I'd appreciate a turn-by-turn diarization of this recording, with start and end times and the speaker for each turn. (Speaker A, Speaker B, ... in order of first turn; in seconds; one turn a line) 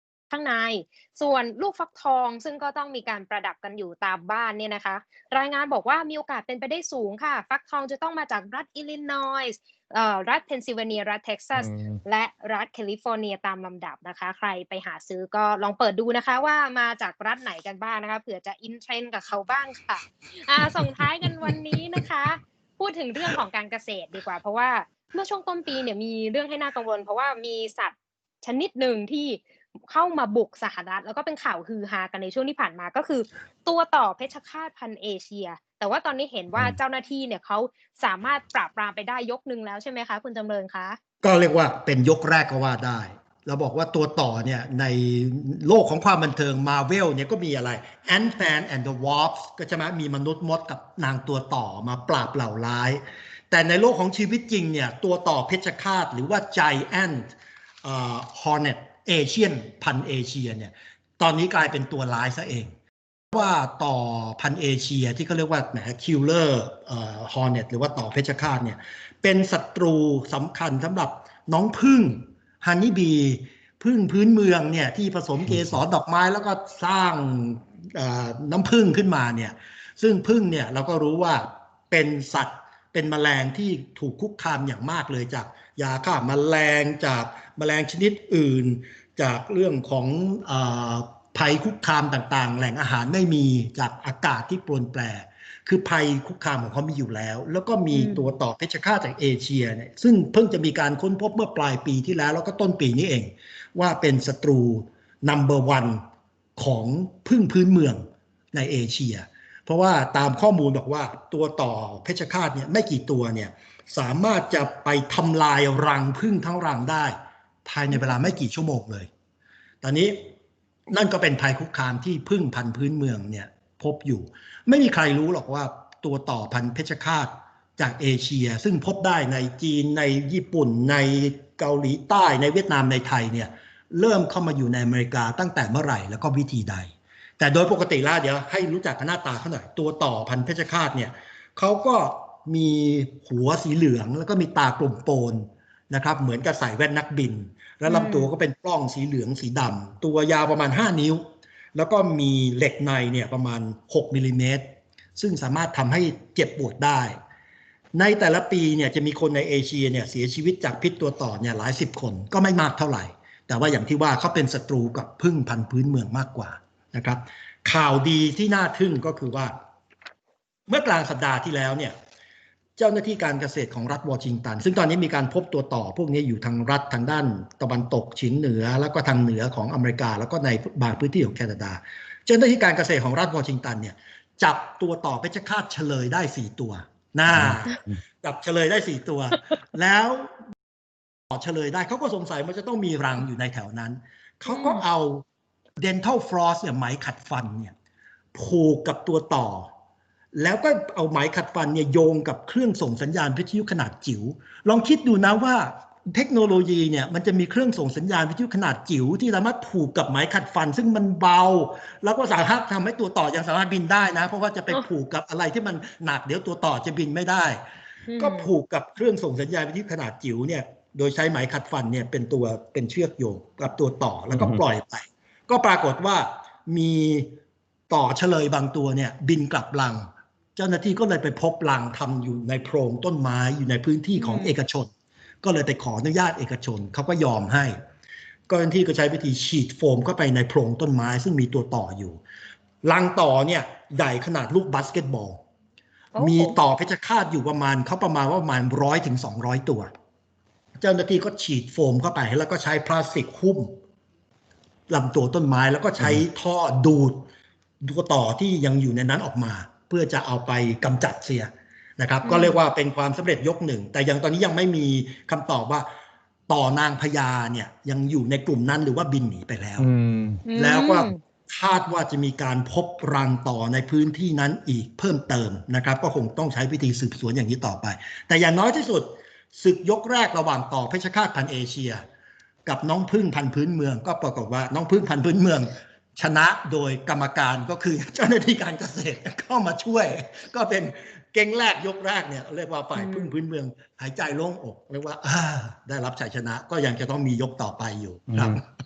Speaker A: 0.3-41.0
Speaker B: 11.6-12.0
Speaker C: 41.2-57.3
Speaker C: 57.8-62.7
Speaker C: 63.3-106.0
Speaker A: 97.9-98.3
Speaker C: 106.6-119.1
Speaker A: 117.9-118.3
Speaker C: 119.8-120.3
Speaker C: 120.9-151.2
Speaker A: 147.9-148.3
Speaker C: 151.8-157.2
Speaker C: 157.9-169.5
Speaker C: 170.7-172.0
Speaker C: 172.8-190.3
Speaker B: 187.3-187.6
Speaker C: 191.3-195.2
Speaker A: 194.5-194.8
Speaker C: 195.8-197.7
Speaker C: 198.3-199.7
Speaker C: 200.3-217.6
Speaker A: 218.1-218.5
Speaker C: 218.2-227.4
Speaker B: 224.3-224.6
Speaker C: 227.9-234.9
Speaker A: 234.2-234.6
Speaker C: 235.4-237.8
Speaker C: 238.5-242.2
Speaker C: 242.8-245.4
Speaker A: 246.1-246.6
Speaker C: 246.2-249.9
Speaker C: 250.8-253.8
Speaker C: 254.9-257.3
Speaker C: 257.8-265.9
Speaker A: 262.2-262.6
Speaker C: 266.5-269.9
Speaker B: 269.8-270.4
Speaker A: 270.5-271.2
Speaker C: 270.6-282.0
Speaker C: 282.7-298.6
Speaker A: 292.9-293.3
Speaker B: 298.3-298.6